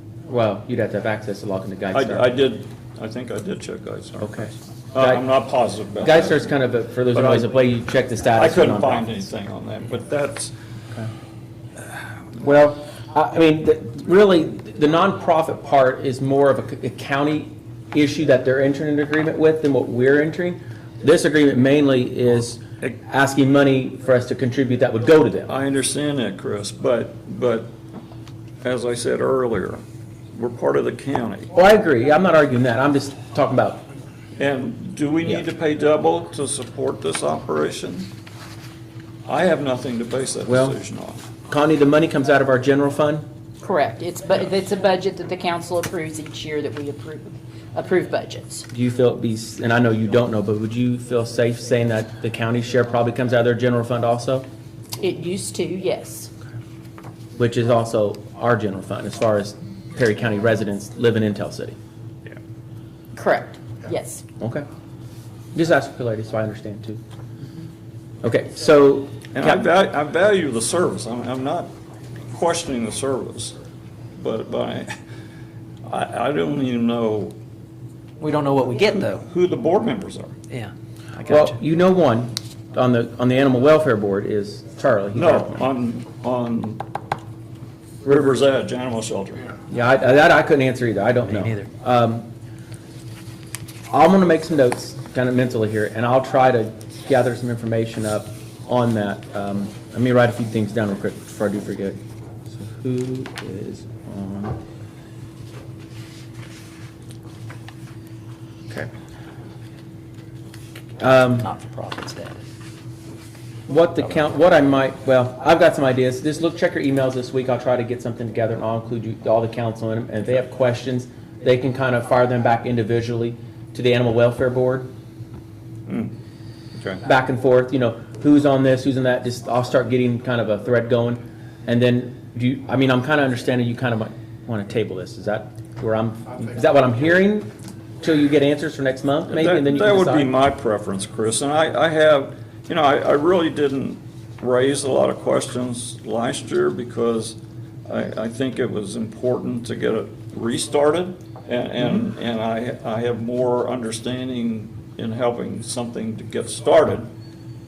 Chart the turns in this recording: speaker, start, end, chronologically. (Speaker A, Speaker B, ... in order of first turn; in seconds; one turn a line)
Speaker A: 0.3-2.3
Speaker B: 1.9-6.5
Speaker A: 4.2-5.2
Speaker A: 6.0-9.1
Speaker B: 7.1-7.5
Speaker B: 8.3-10.6
Speaker A: 12.4-25.5
Speaker B: 25.5-27.7
Speaker B: 28.6-31.5
Speaker A: 31.5-33.9
Speaker B: 34.4-38.1
Speaker B: 39.3-41.3
Speaker A: 40.5-40.8
Speaker A: 41.5-43.3
Speaker C: 43.6-48.7
Speaker A: 48.7-54.5
Speaker C: 55.0-56.3
Speaker A: 57.4-61.8
Speaker C: 63.1-64.2
Speaker A: 64.4-64.7
Speaker A: 65.5-67.0
Speaker A: 68.2-69.7
Speaker B: 69.3-71.7
Speaker B: 72.3-73.6
Speaker B: 74.2-74.9
Speaker B: 75.9-77.4
Speaker D: 78.2-79.2
Speaker B: 79.0-80.3
Speaker D: 80.5-81.6
Speaker A: 81.3-85.7
Speaker B: 85.2-86.8
Speaker B: 88.0-89.6
Speaker A: 89.7-92.3
Speaker D: 91.3-91.7
Speaker A: 93.9-102.0
Speaker A: 102.5-104.6
Speaker A: 111.0-111.5
Speaker D: 111.0-112.4
Speaker A: 113.7-124.9
Speaker B: 125.9-126.2
Speaker B: 126.7-127.0
Speaker A: 127.0-140.3
Speaker B: 139.3-157.1